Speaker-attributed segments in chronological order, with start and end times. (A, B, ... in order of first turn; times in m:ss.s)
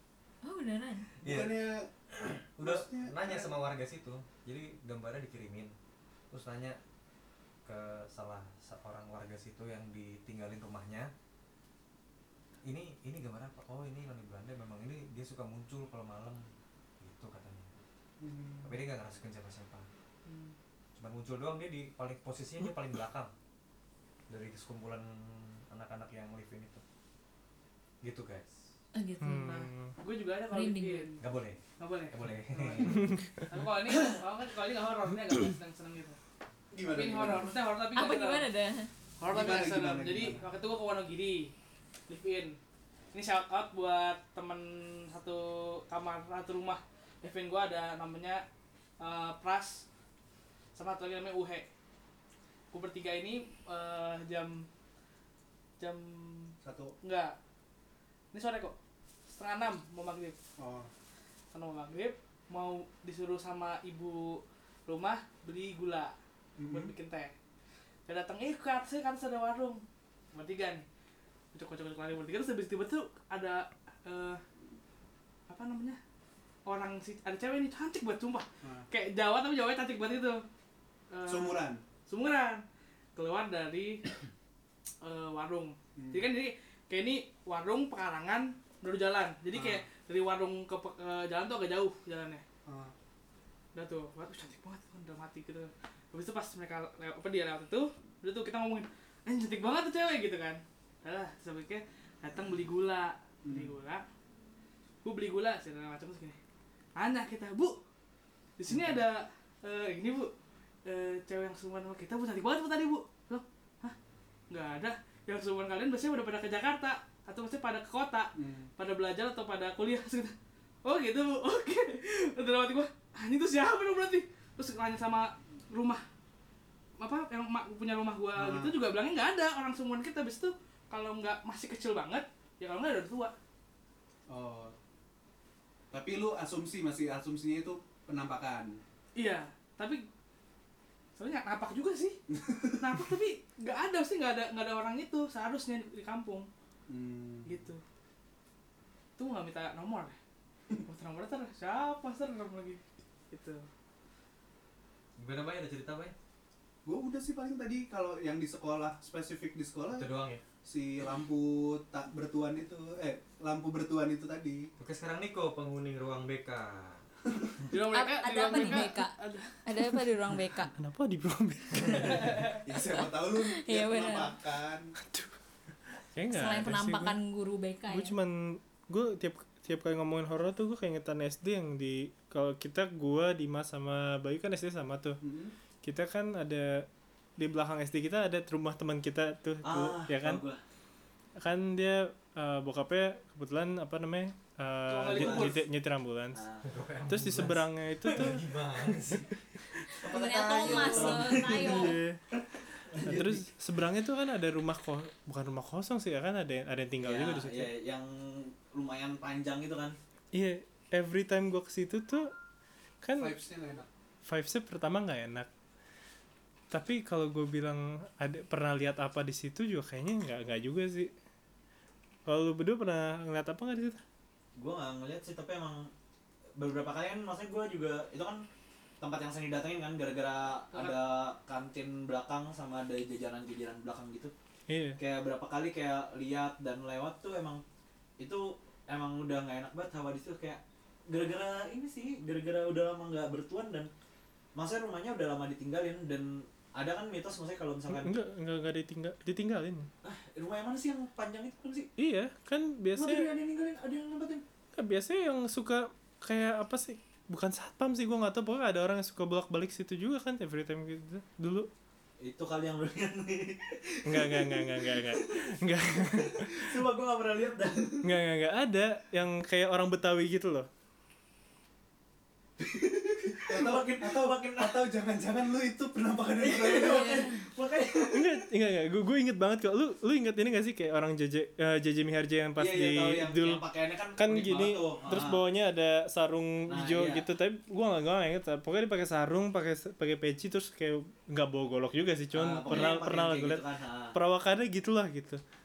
0:00.4-0:01.1 A
0:01.2-0:01.9 B
0:01.2-0:05.7 C
0:02.6-0:03.5 B
0:06.3-0:06.8 C
0:07.6-0:11.1 C
0:12.6-0:16.4 C
0:17.0-0:17.7 C
0:18.2-0:18.8 B
0:18.6-0:19.9 C
0:20.2-0:20.5 D
0:21.0-0:23.3 C
0:24.3-0:26.8 C
0:28.0-0:28.6 C
0:28.9-0:29.7 A
0:29.2-0:29.9 E
0:30.0-0:31.2 D
0:30.5-0:31.1 A
0:31.2-0:33.1 C
0:31.8-0:36.2 D
0:33.0-0:33.2 E
0:33.9-0:34.2 F
0:36.7-0:37.5 B
0:36.9-0:38.4 D
0:37.9-0:38.9 A
0:39.2-0:41.5 D
0:39.2-0:40.5 B
0:42.1-0:42.6 D
0:43.1-0:48.4 D
0:49.0-0:49.8 D
0:50.7-0:51.7 D
0:52.7-0:54.7 D
0:55.8-0:57.4 D
0:56.6-0:56.9 B
0:58.3-0:58.7 D
0:59.3-1:00.4 D
1:00.6-1:00.9 B
1:01.5-1:06.1 D
1:06.6-1:06.9 B
1:06.7-1:07.3 D
1:08.0-1:10.8 D
1:11.5-1:14.4 D
1:15.5-1:16.0 D
1:16.6-1:20.4 D
1:18.6-1:18.9 B
1:21.1-1:22.6 D
1:21.2-1:21.8 B
1:23.2-1:24.0 D
1:25.0-1:32.4 D
1:26.0-1:26.3 B
1:29.5-1:29.8 B
1:32.6-1:32.9 B
1:33.7-1:44.0 D
1:43.4-1:43.7 B
1:45.0-1:46.4 D
1:47.0-1:47.8 D
1:48.6-1:50.3 D
1:48.7-1:49.0 B
1:50.8-1:54.0 D
1:54.5-2:06.0 D
1:58.4-1:58.7 B
2:07.0-2:13.3 D
2:08.3-2:08.7 B
2:14.3-2:14.7 B
2:15.9-2:18.8 B
2:19.2-2:20.0 D
2:21.2-2:22.2 D
2:22.3-2:23.0 B
2:22.8-2:26.5 D
2:26.9-2:27.6 B
2:27.4-2:27.8 D
2:29.2-2:30.2 D
2:30.8-2:33.6 D
2:35.2-2:36.1 C
2:36.8-2:40.1 B
2:39.9-2:40.4 C
2:40.6-2:44.7 B
2:44.8-2:47.0 C
2:47.7-2:49.6 D
2:47.8-2:49.1 A
2:49.6-2:50.7 A
2:50.7-2:52.5 E
2:52.0-2:52.6 D
2:52.6-2:54.9 B
2:52.8-2:54.3 A
2:55.0-2:55.3 E
2:56.1-2:57.2 E
2:56.3-2:58.1 A
2:57.9-3:05.2 E
3:05.2-3:05.5 B
3:05.8-3:10.4 E
3:09.6-3:10.6 F
3:11.4-3:16.4 E
3:14.9-3:15.6 D
3:15.1-3:15.6 F
3:16.3-3:16.8 F
3:16.6-3:19.3 C
3:17.1-3:18.4 E
3:18.0-3:18.3 F
3:19.9-3:23.5 F
3:20.0-3:22.0 A
3:20.1-3:21.2 C
3:21.4-3:22.2 E
3:23.0-3:27.7 E
3:27.0-3:30.0 F
3:30.3-3:32.3 E
3:33.0-3:33.3 E
3:33.2-3:33.9 B
3:34.2-3:35.5 E
3:36.7-3:41.1 E
3:42.2-3:44.0 E
3:44.6-3:45.9 F
3:46.6-3:48.4 F
3:49.0-3:54.3 F
3:50.7-3:51.0 D
3:54.7-3:55.0 E
3:55.0-3:57.6 F
3:58.2-4:03.9 F
4:04.6-4:08.1 F
4:07.9-4:09.9 E
4:10.0-4:11.9 F
4:12.0-4:13.3 E
4:12.9-4:14.4 F
4:14.7-4:21.7 E
4:22.2-4:28.1 F
4:24.0-4:26.8 E
4:28.0-4:30.7 E
4:32.6-4:34.9 F
4:33.4-4:37.3 B
4:36.4-4:38.5 F
4:36.9-4:37.4 A
4:38.1-4:43.6 E
4:42.6-4:45.4 F
4:44.2-4:55.4 E
4:46.7-4:47.3 F
4:52.3-4:54.2 F